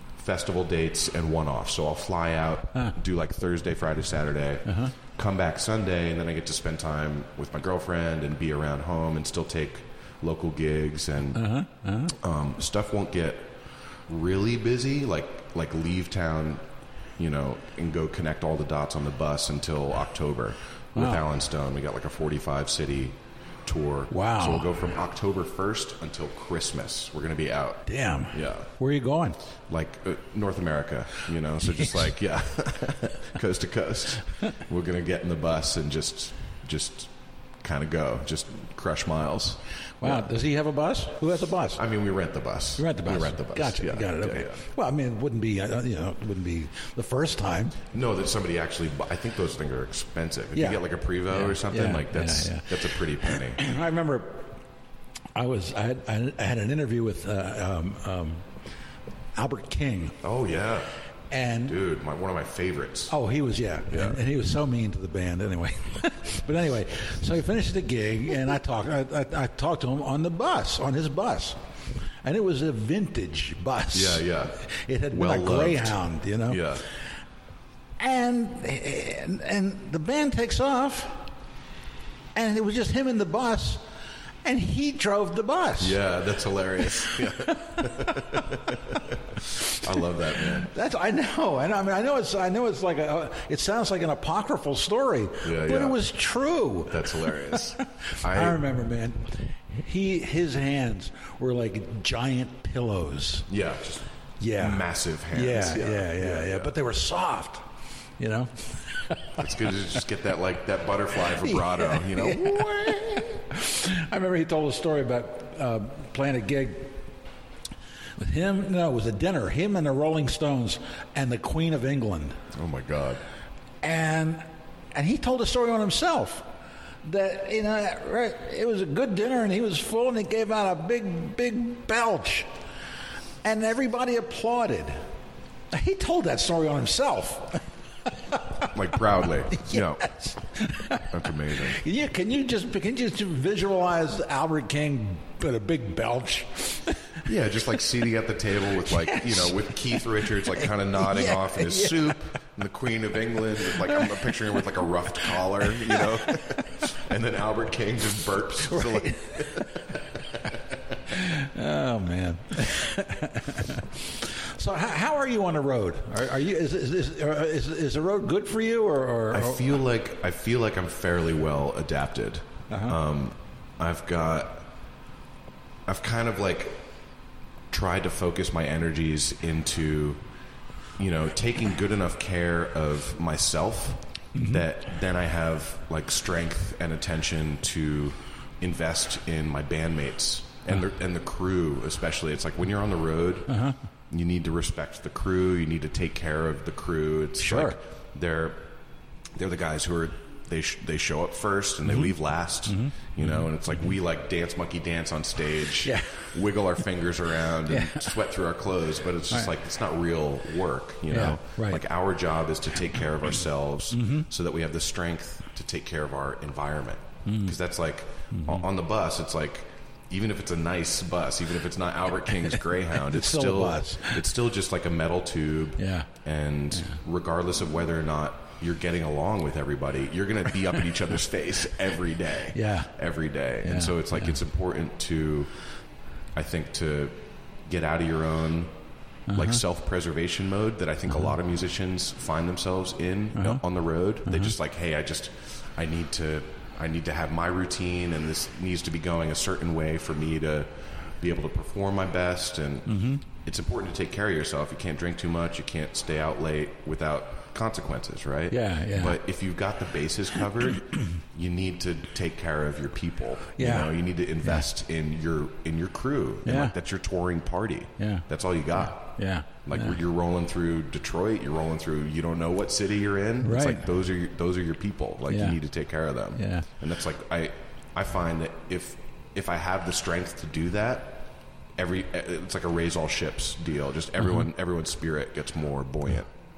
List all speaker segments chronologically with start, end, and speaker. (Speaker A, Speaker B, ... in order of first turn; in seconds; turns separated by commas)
Speaker A: 0.1-11.5, Speaker B: 4.7-4.9, Speaker B: 11.3-12.1, Speaker A: 12.1-13.5, Speaker A: 14.1-16.6, Speaker A: 17.2-28.7, Speaker B: 20.9-21.2, Speaker B: 24.1-24.7, Speaker B: 27.9-29.4, Speaker A: 29.7-40.2, Speaker B: 40.0-41.8, Speaker A: 41.8-44.6, Speaker B: 42.8-47.8, Speaker A: 47.9-53.6, Speaker B: 50.5-54.5, Speaker B: 55.3-58.4, Speaker B: 59.4-60.2, Speaker A: 60.2-60.9, Speaker B: 61.3-61.8, Speaker A: 61.6-63.1, Speaker B: 63.1-71.6, Speaker A: 63.9-64.2, Speaker B: 72.2-76.8, Speaker A: 73.9-74.6, Speaker A: 75.1-76.0, Speaker A: 76.5-76.8, Speaker B: 78.0-81.2, Speaker B: 82.3-83.8, Speaker B: 84.4-86.0, Speaker A: 85.8-90.7, Speaker B: 90.5-103.5, Speaker A: 95.4-96.0, Speaker A: 96.9-98.6, Speaker A: 103.5-106.7, Speaker B: 104.4-107.7, Speaker B: 108.2-109.4, Speaker A: 109.4-113.1, Speaker B: 111.4-117.0, Speaker B: 118.2-122.4, Speaker A: 122.5-123.2, Speaker B: 123.8-126.4, Speaker B: 127.0-132.5, Speaker B: 133.4-135.0, Speaker B: 135.7-137.6, Speaker B: 138.3-138.7, Speaker A: 138.7-140.1, Speaker B: 139.5-147.1, Speaker A: 141.1-141.8, Speaker A: 147.2-160.8, Speaker B: 148.9-152.2, Speaker B: 153.8-154.3, Speaker B: 158.6-159.8, Speaker B: 161.1-169.7, Speaker A: 169.3-174.7, Speaker B: 172.7-173.0, Speaker A: 175.9-176.8, Speaker A: 177.7-180.2, Speaker A: 181.0-193.5, Speaker B: 184.3-184.6, Speaker B: 193.5-193.8, Speaker A: 194.1-198.6, Speaker B: 197.4-197.8, Speaker A: 199.3-235.5, Speaker B: 202.7-203.5, Speaker B: 205.8-206.2, Speaker B: 207.7-208.1, Speaker B: 211.1-211.8, Speaker B: 213.9-214.3, Speaker B: 217.2-217.5, Speaker B: 218.3-218.6, Speaker B: 223.1-224.2, Speaker B: 225.8-226.1, Speaker B: 232.5-232.9, Speaker B: 233.6-234.3, Speaker A: 236.3-238.7, Speaker B: 239.3-239.6, Speaker A: 239.3-250.7, Speaker B: 243.3-243.6, Speaker B: 244.2-244.5, Speaker A: 251.2-286.3, Speaker B: 252.9-253.2, Speaker B: 258.5-259.2, Speaker B: 263.6-263.9, Speaker B: 266.4-266.7, Speaker B: 268.0-268.2, Speaker B: 269.1-269.9, Speaker B: 273.4-273.8, Speaker B: 275.3-275.6, Speaker B: 276.4-276.7